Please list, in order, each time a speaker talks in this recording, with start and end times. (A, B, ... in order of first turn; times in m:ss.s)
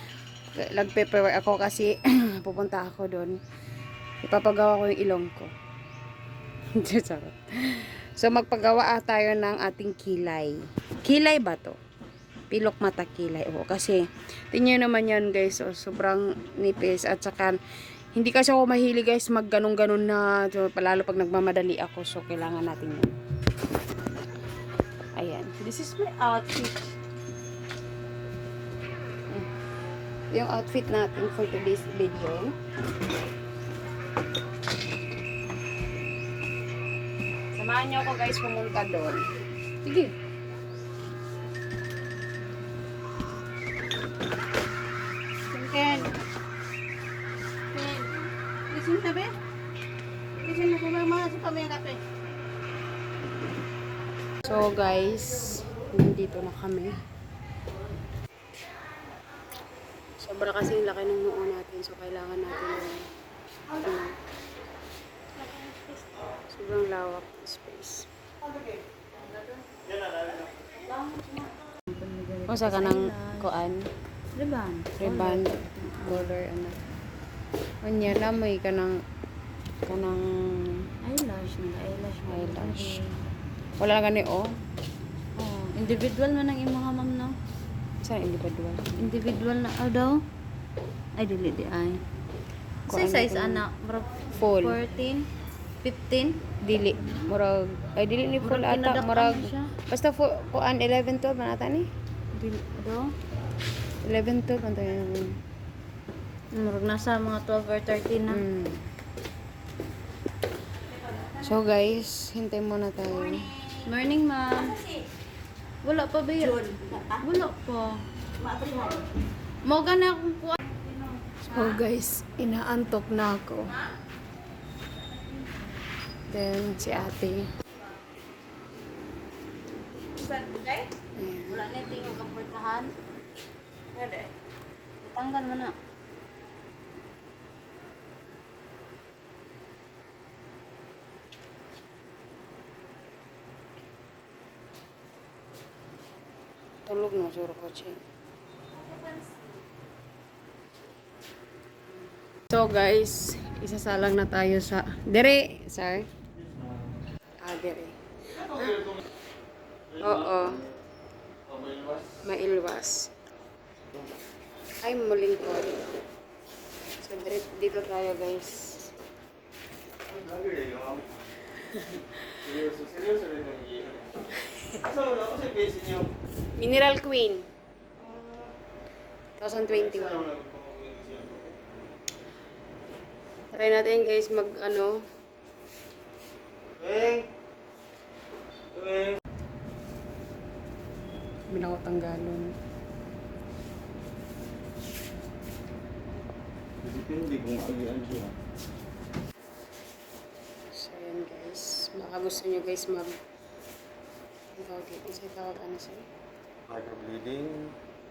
0:00.6-0:03.4 A
0:04.2-0:05.5 A
0:06.8-0:11.8 A
0:12.5-0:17.6 A
0:18.1-0:23.1 A
0:25.2-0:26.9 A
0:30.3-0:32.5 A
0:37.6-0:39.2 A
0:39.8-0:40.1 A
0:45.5-0:46.1 B
0:47.7-0:48.1 B
0:48.7-0:49.3 B
0:50.4-0:52.0 B
0:54.4-0:57.0 A
1:00.2-1:03.1 A
1:03.7-1:04.2 A
1:06.5-1:08.1 A
1:10.8-1:13.5 B
1:12.5-1:13.9 A
1:14.4-1:16.4 B
1:14.9-1:16.8 A
1:17.8-1:19.0 A
1:19.8-1:20.9 A
1:21.0-1:23.2 B
1:22.3-1:23.0 A
1:23.8-1:24.6 A
1:25.4-1:27.4 B
1:28.0-1:29.2 A
1:29.0-1:30.2 B
1:31.2-1:32.0 B
1:32.9-1:33.7 A
1:32.9-1:35.3 B
1:34.4-1:35.0 A
1:35.8-1:36.4 B
1:36.6-1:41.9 A
1:38.4-1:39.7 B
1:42.3-1:43.1 B
1:44.0-1:45.4 A
1:46.5-1:48.4 B
1:48.3-1:48.9 A
1:51.4-1:53.5 A
1:53.8-1:54.8 B
1:55.8-1:59.0 B
1:59.6-2:00.8 B
2:01.4-2:03.8 A
2:06.3-2:07.4 A
2:10.2-2:10.9 B
2:11.2-2:11.6 A
2:11.5-2:12.9 B
2:13.9-2:14.3 B
2:15.0-2:15.7 B
2:26.9-2:28.0 A
2:32.5-2:36.1 A
2:37.4-2:38.0 A
2:40.0-2:40.6 A
2:41.7-2:42.1 C
2:42.2-2:43.1 A
2:44.8-2:45.8 A
2:47.0-2:48.9 A
2:50.1-2:51.1 C
2:51.7-2:52.4 A
2:52.4-2:54.1 C
2:54.8-2:56.1 C
2:56.6-2:57.5 A
2:58.1-2:58.5 C
2:59.4-3:00.3 A
2:59.7-3:01.6 C
3:03.5-3:05.0 A
3:06.8-3:07.3 C
3:08.7-3:09.2 C
3:11.5-3:12.6 A
3:16.8-3:18.4 C
3:20.7-3:23.2 A
3:24.6-3:26.1 A
3:26.7-3:27.8 C